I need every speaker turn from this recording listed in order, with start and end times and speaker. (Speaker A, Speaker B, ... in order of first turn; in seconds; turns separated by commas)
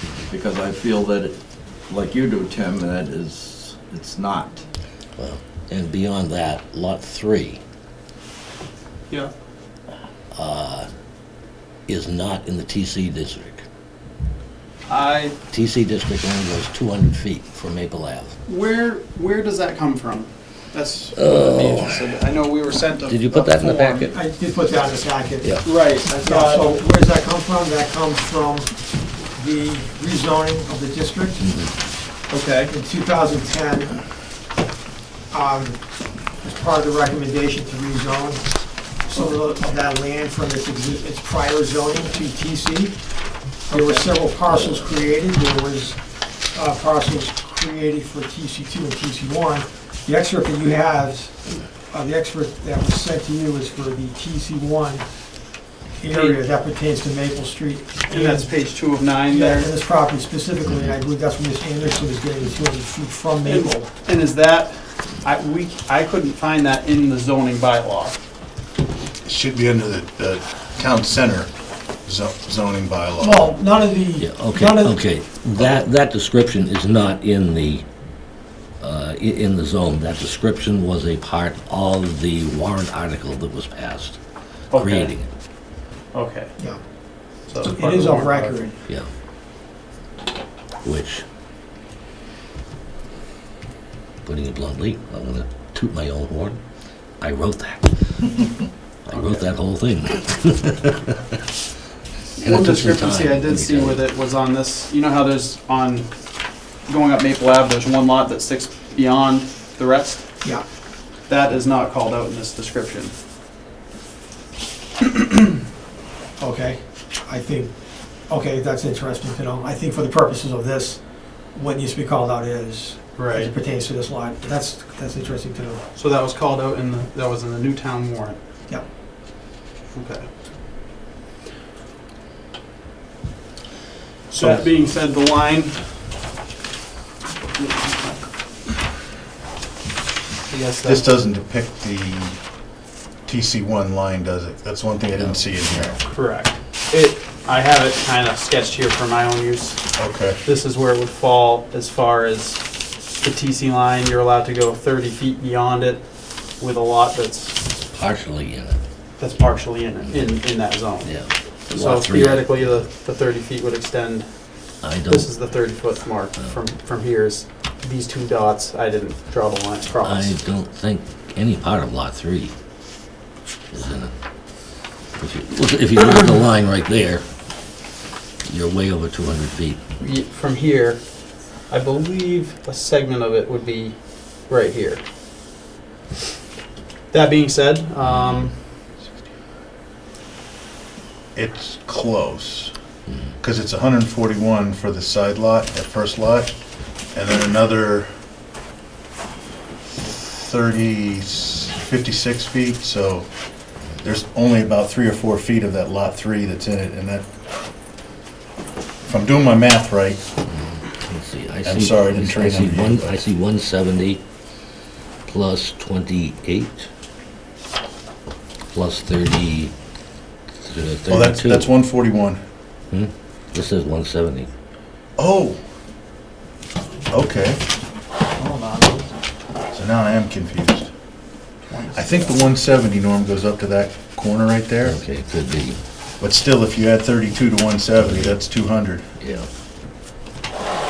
Speaker A: 0.2-4.6, Speaker B: 5.2-7.6, Speaker B: 10.3-10.9, Speaker B: 11.9-13.6, Speaker C: 14.9-15.4, Speaker B: 15.5-18.4, Speaker C: 18.4-24.1, Speaker B: 21.2-22.1, Speaker B: 23.1-24.2, Speaker D: 24.1-25.6, Speaker B: 25.4-25.7, Speaker C: 25.6-26.8, Speaker D: 26.2-31.6, Speaker B: 31.4-31.7, Speaker C: 32.3-32.7, Speaker D: 32.7-34.1, Speaker D: 35.3-58.5, Speaker C: 43.7-44.2, Speaker C: 56.1-56.5, Speaker C: 58.1-59.8, Speaker D: 59.3-63.9, Speaker C: 63.5-68.2, Speaker E: 69.2-73.5, Speaker D: 73.2-75.0, Speaker B: 74.2-77.8, Speaker E: 75.6-75.8, Speaker B: 78.8-84.2, Speaker C: 84.7-85.1, Speaker B: 84.8-85.3, Speaker C: 86.1-86.5, Speaker C: 87.5-88.7, Speaker D: 87.6-88.8, Speaker B: 88.8-89.1, Speaker B: 90.8-91.2, Speaker B: 94.2-96.6, Speaker B: 97.2-98.4, Speaker B: 99.1-101.4, Speaker C: 99.1-99.6, Speaker C: 102.4-106.1, Speaker B: 102.4-104.0, Speaker C: 106.8-110.2, Speaker C: 111.2-113.1, Speaker D: 116.4-125.8, Speaker C: 123.2-123.5, Speaker C: 125.9-128.4, Speaker C: 129.9-130.3, Speaker C: 134.3-136.0, Speaker C: 137.6-138.3, Speaker C: 140.5-141.1, Speaker E: 140.8-142.4, Speaker E: 143.3-146.0, Speaker B: 145.2-145.4, Speaker C: 146.0-149.8, Speaker E: 150.0-150.4, Speaker C: 150.4-157.6, Speaker B: 157.9-158.8, Speaker C: 159.2-164.3, Speaker B: 161.0-162.9, Speaker B: 164.8-165.4, Speaker C: 165.0-170.4, Speaker B: 170.0-172.5, Speaker B: 173.7-174.1, Speaker B: 175.2-177.2, Speaker B: 178.4-179.8, Speaker C: 180.0-181.0, Speaker C: 181.7-185.0, Speaker C: 187.1-188.6, Speaker E: 191.3-192.7, Speaker E: 193.4-196.5, Speaker E: 197.1-198.1, Speaker E: 200.0-207.3, Speaker E: 209.0-210.3, Speaker B: 210.5-214.2, Speaker E: 211.7-213.1, Speaker B: 215.3-216.9, Speaker B: 218.7-219.7, Speaker B: 220.6-221.7, Speaker E: 221.1-222.4, Speaker B: 222.9-224.5, Speaker E: 225.2-225.6, Speaker E: 227.1-227.6, Speaker C: 228.4-229.1, Speaker E: 229.7-230.9, Speaker C: 231.6-232.5, Speaker E: 231.9-235.0, Speaker B: 234.8-235.8, Speaker E: 236.2-239.0, Speaker B: 238.0-238.4, Speaker B: 239.2-239.5